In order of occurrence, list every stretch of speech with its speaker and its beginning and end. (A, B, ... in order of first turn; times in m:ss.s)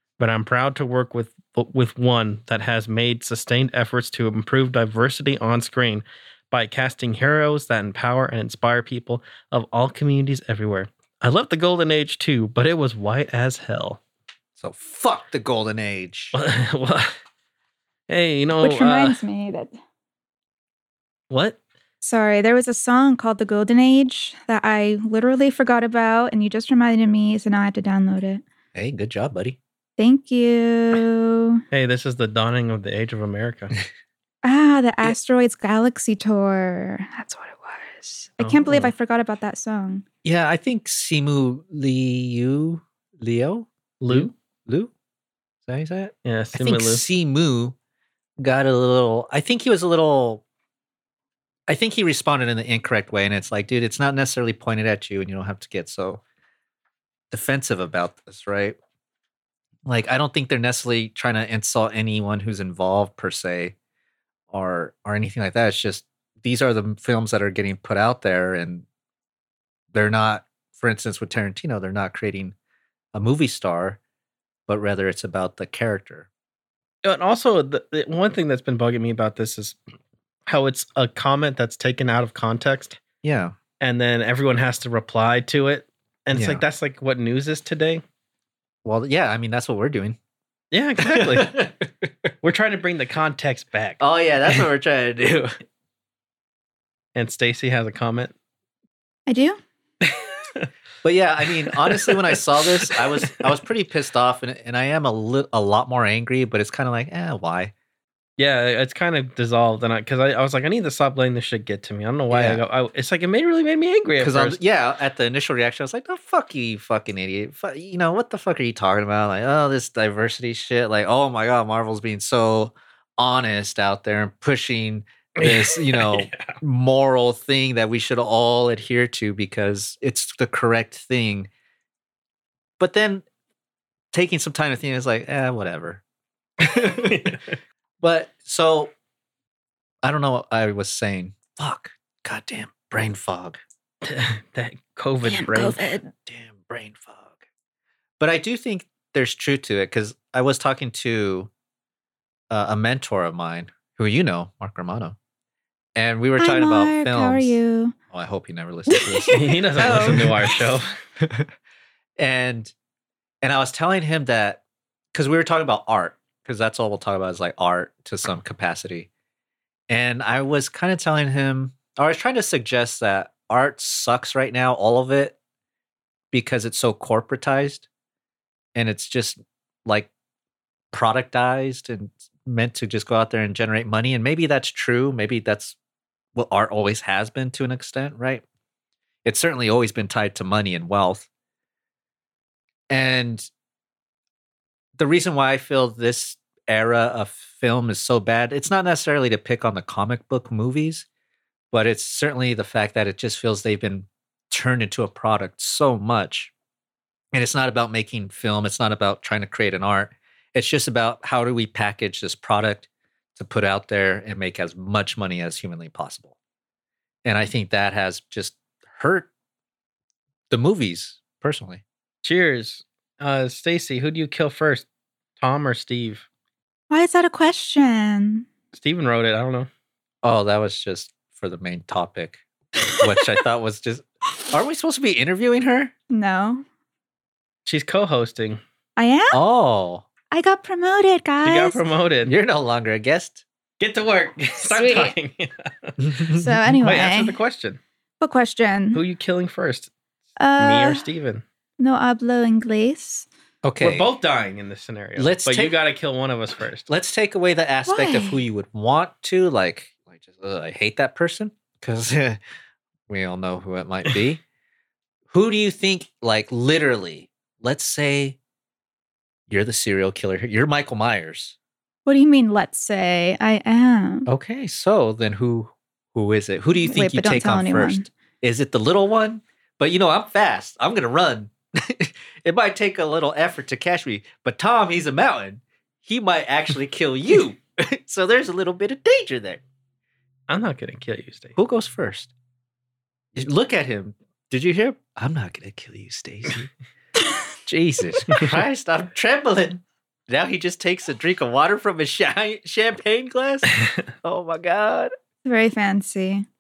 0:00.2-0:14.0 A
0:14.6-0:16.4 B
0:16.4-0:17.2 A
0:18.1-0:19.2 A
0:18.6-0:19.7 C
0:21.3-0:21.6 A
0:22.0-0:28.4 C
0:28.8-0:29.6 B
0:30.0-0:31.6 C
0:31.7-0:33.8 A
0:34.4-0:40.0 C
0:38.4-0:38.9 A
0:40.2-0:44.9 B
0:44.0-0:44.3 A
0:45.7-0:47.8 B
0:46.2-0:47.0 A
0:48.4-0:50.4 B
0:51.7-0:56.2 B
0:57.3-0:58.8 B
0:59.9-1:03.8 B
1:04.5-1:08.9 B
1:09.9-1:12.6 B
1:13.1-1:14.0 B
1:14.7-1:16.3 B
1:17.0-1:19.8 A
1:20.5-1:23.0 A
1:23.2-1:23.6 B
1:23.8-1:28.0 A
1:26.3-1:26.6 B
1:28.8-1:30.2 B
1:30.7-1:31.6 A
1:31.0-1:32.3 B
1:32.4-1:34.0 A
1:34.0-1:35.5 B
1:37.2-1:38.3 A
1:39.3-1:39.6 C
1:40.0-1:40.7 A
1:41.0-1:47.7 B
1:41.6-1:43.5 A
1:48.4-1:54.6 A
1:52.3-1:52.6 B
1:54.2-2:11.5 B
2:05.4-2:06.6 A
2:12.8-2:13.2 B
2:14.1-2:16.0 B
2:16.6-2:17.4 B
2:17.1-2:17.4 A
2:18.0-2:18.9 B
2:20.0-2:23.6 B
2:24.0-2:25.8 A
2:25.2-2:26.1 C
2:26.1-2:27.4 B
2:28.2-2:31.5 B
2:32.5-2:35.2 B
2:36.0-2:37.6 B
2:36.4-2:38.0 C
2:38.1-2:40.5 B
2:38.9-2:40.6 C
2:39.3-2:40.9 A
2:41.2-2:41.5 B
2:42.2-2:42.7 B
2:43.4-2:44.6 B
2:45.1-2:49.1 B
2:49.9-2:55.4 B
2:56.3-2:57.9 B
2:58.8-3:00.1 B
3:00.9-3:05.8 B
3:06.4-3:08.4 B
3:09.2-3:11.3 B
3:12.9-3:13.5 B
3:15.0-3:21.1 B
3:21.7-3:26.5 B
3:27.3-3:36.4 B
3:37.2-3:39.3 B
3:40.5-3:41.8 B
3:42.2-3:44.9 A
3:45.4-3:46.3 A
3:46.9-3:48.5 C
3:48.7-3:49.7 A
3:50.2-3:52.4 B
3:53.0-3:55.9 B
3:56.1-3:56.6 C
3:57.7-3:58.6 A
3:59.0-3:59.4 C
3:59.3-4:00.1 B
4:00.3-4:01.8 C
4:01.4-4:02.4 A
4:02.2-4:03.4 B
4:03.8-4:06.0 A
4:04.6-4:05.1 C
4:06.0-4:06.7 B
4:06.3-4:07.4 C
4:06.8-4:07.8 A
4:08.2-4:09.0 C
4:08.9-4:09.9 A
4:10.4-4:11.0 C
4:10.6-4:11.4 A
4:11.8-4:13.3 C
4:13.6-4:14.1 B
4:13.8-4:16.9 A
4:15.2-4:15.8 B
4:16.9-4:22.4 B
4:17.9-4:18.4 C
4:23.1-4:24.4 B
4:25.3-4:28.4 B
4:29.5-4:31.6 B
4:32.1-4:34.3 C
4:34.3-4:49.6 B
4:36.8-4:38.1 C
4:50.5-4:51.6 A
4:51.6-4:52.3 B
4:53.4-4:56.7 B
4:57.7-5:03.7 B
4:58.3-4:58.6 A
5:04.2-5:05.1 B
5:05.4-5:06.5 C